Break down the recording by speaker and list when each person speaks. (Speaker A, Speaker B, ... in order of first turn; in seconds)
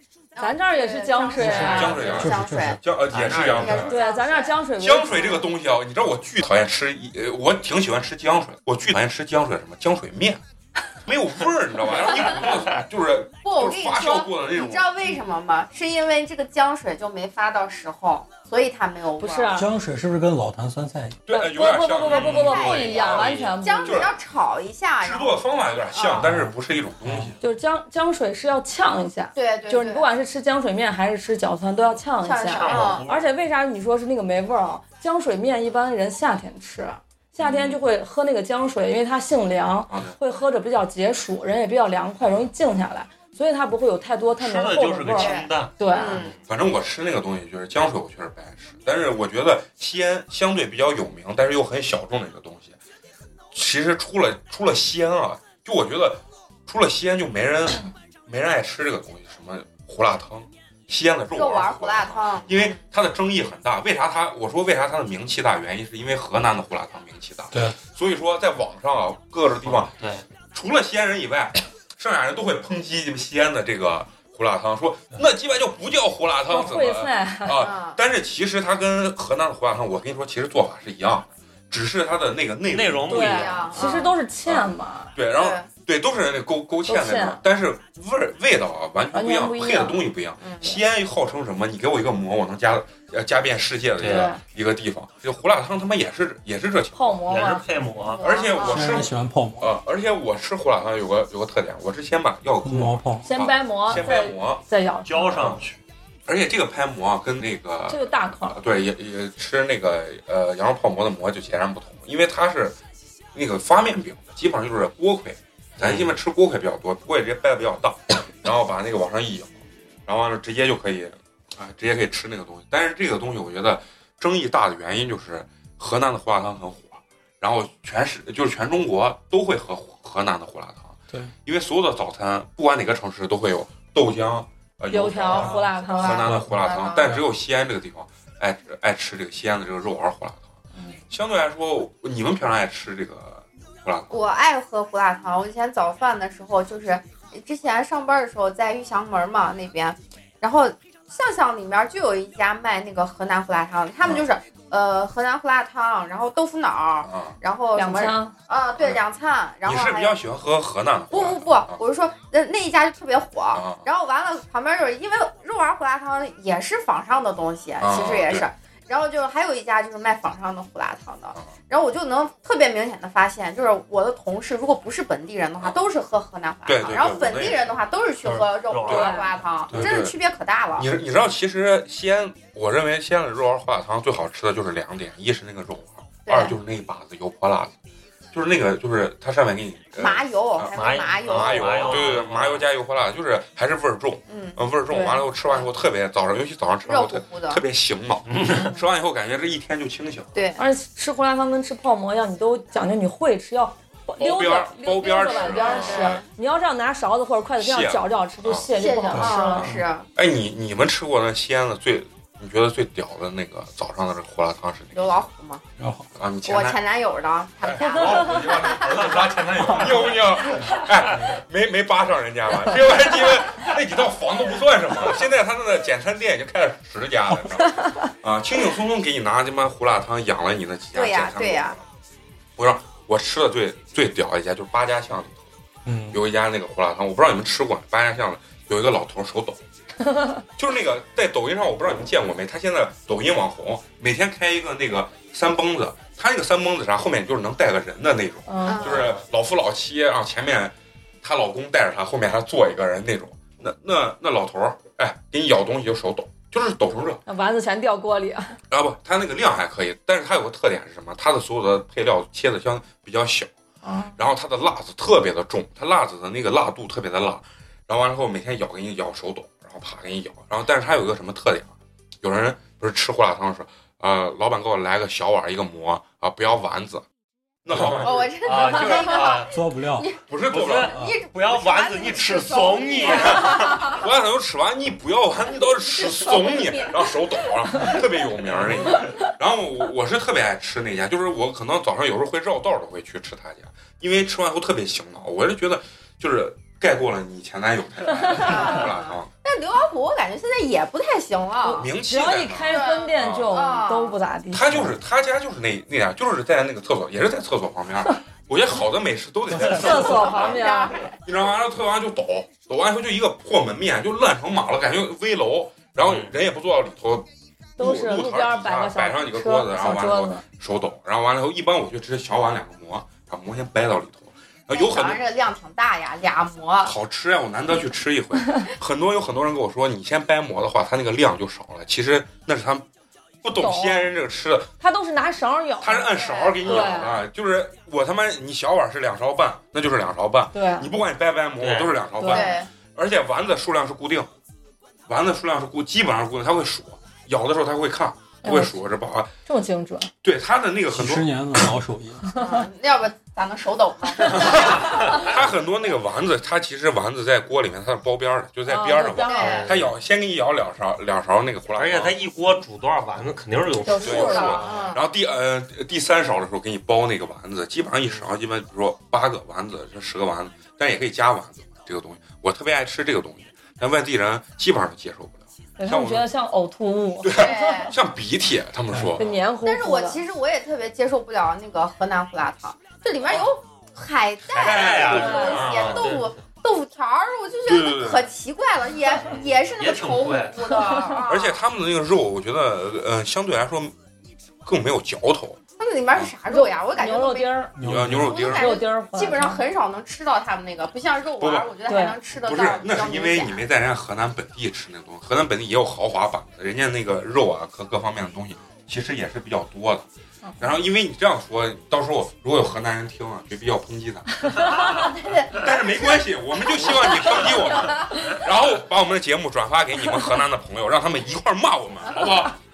Speaker A: 0.3-4.6, 13.4-19.6, 22.0-25.4, 25.9-26.3, 29.3-30.1, 32.2-33.0, 45.1-46.3, 61.3-62.8, 77.5-78.0, 83.2-84.1, 85.4-85.7, 90.4-90.7, 98.0-99.0, 135.7-137.2, 144.1-160.2, 161.1-180.9, 186.2-186.6, 190.0-192.1, 194.3-194.6, 196.8-197.6, 200.3-200.6, 205.2-206.2, 208.7-210.1, 214.9-215.6, 216.4-219.0, 230.9-231.8, 248.6-249.1, 278.0-284.0, 286.0-286.9, 298.3-301.9, 302.7-304.2, 309.6-311.2, 324.7-326.9, 336.1-336.7, 342.2-342.7, 352.3-355.3, 359.2-359.7, 363.9-365.0, 377.3-377.9, 379.6-391.6, 395.8-397.5, 398.2-403.6, 414.6-418.3
Speaker B: 0.4-2.2, 3.8-5.4, 19.2-19.7, 21.3-24.0, 27.4-46.2, 76.5-77.7, 83.1-85.1, 86.9-87.4, 89.1-90.0, 94.0-94.4, 96.9-97.7, 103.2-105.6, 107.9-108.6, 134.9-136.3, 140.7-141.0, 157.7-158.3, 178.9-179.3, 194.9-195.2, 200.6-209.7, 248.5-248.9, 257.3-258.6, 263.8-264.2, 301.6-304.6, 309.5-311.0, 317.8-320.4, 333.6-334.1, 334.8-336.1, 336.6-337.1, 340.5-340.9, 342.2-342.6, 348.4-348.8, 349.4-350.1, 358.7-359.7, 363.8-364.6, 375.8-377.9, 379.2-380.2, 385.1-385.7, 390.7-391.2, 396.5-397.7, 398.3-399.6, 401.9-402.2
Speaker C: 1.4-2.8, 19.5-21.2, 26.2-26.5, 27.0-27.3, 98.6-99.7, 102.6-103.3, 135.3-135.7, 136.2-137.2, 209.1-209.8, 215.8-216.1, 235.8-236.2, 277.7-278.1, 279.5-280.1, 350.9-352.4, 397.8-398.3
Speaker D: 1.4-4.0, 4.8-10.4, 11.0-14.9, 21.2-24.1, 25.0-27.4, 37.4-37.8, 39.9-40.2, 46.5-52.8, 53.5-69.9, 70.5-83.9, 84.5-97.2, 98.2-104.6, 106.3-112.8, 113.3-140.5, 141.1-144.2, 154.0-154.3, 157.0-157.4, 159.6-161.8, 163.5-163.8, 167.8-168.5, 176.6-177.7, 179.7-180.1, 180.8-187.7, 188.3-200.3, 204.2-206.2, 207.6-208.7, 209.6-215.3, 216.1-216.8, 217.6-231.9, 232.6-235.5, 236.1-239.6, 240.6-257.2, 258.7-263.5, 264.1-277.0, 277.6-278.3, 280.3-280.9, 283.9-299.3, 301.8-303.6, 304.5-310.6, 311.2-325.2, 326.8-332.9, 333.4-334.7, 335.8-344.3, 345.1-349.3, 350.2-351.6, 354.3-362.1, 364.0-376.2, 377.2-379.3, 384.6-386.1, 387.6-388.2, 391.3-393.9, 394.6-395.6, 397.8-398.7, 401.4-401.7, 402.4-410.1, 410.6-422.6
Speaker E: 3.1-3.9, 22.1-22.6, 32.5-33.3, 44.4-46.4, 69.6-70.2, 82.7-83.8, 94.0-94.3, 97.3-98.2, 105.0-105.8, 115.8-116.1, 178.2-179.3, 190.7-192.7, 198.3-198.7, 248.8-249.2, 278.4-279.5, 280.5-284.0, 288.5-288.9, 316.0-316.4, 336.6-337.0, 341.6-341.9, 359.4-359.9, 361.8-364.9, 384.5-386.3, 389.1-390.6